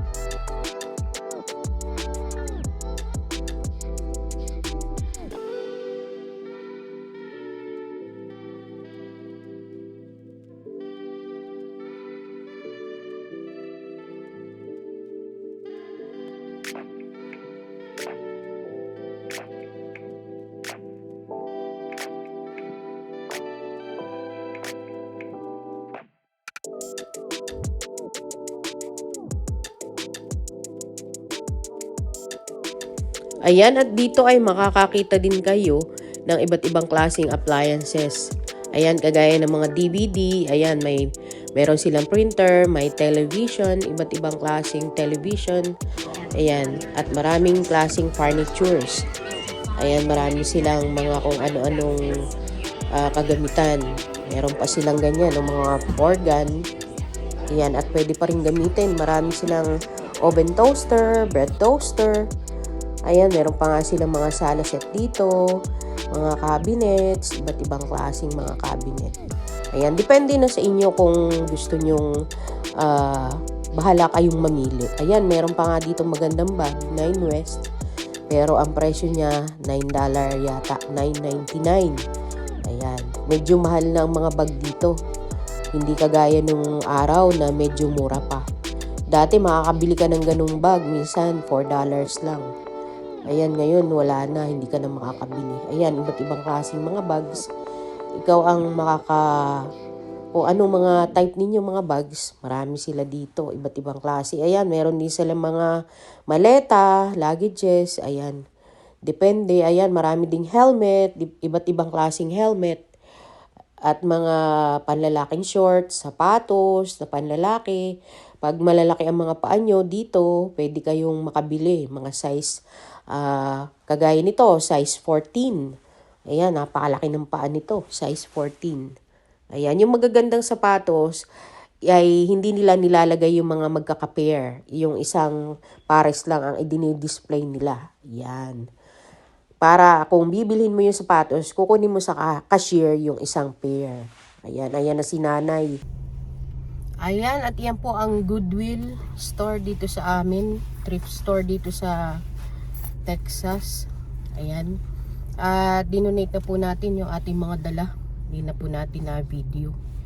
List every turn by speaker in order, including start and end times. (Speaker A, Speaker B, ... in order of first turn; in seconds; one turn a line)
Speaker A: 33.5-41.0
Speaker A: 41.6-45.7
Speaker A: 46.4-49.0
Speaker A: 49.8-52.1
Speaker A: 52.9-56.6
Speaker A: 57.5-59.7
Speaker A: 60.2-62.3
Speaker A: 63.1-65.3
Speaker A: 66.1-69.2
Speaker A: 69.7-72.1
Speaker A: 72.8-77.7
Speaker A: 78.3-82.0
Speaker A: 82.7-85.0
Speaker A: 85.8-88.4
Speaker A: 89.1-92.5
Speaker A: 93.3-97.4
Speaker A: 98.2-99.7
Speaker A: 100.3-105.7
Speaker A: 106.3-108.4
Speaker A: 109.1-112.8
Speaker A: 113.9-117.8
Speaker A: 118.4-122.5
Speaker A: 123.1-125.6
Speaker A: 126.3-128.8
Speaker A: 129.5-131.2
Speaker A: 131.9-135.4
Speaker A: 135.9-138.6
Speaker A: 139.6-145.8
Speaker A: 147.0-152.2
Speaker A: 153.1-154.8
Speaker A: 155.4-159.8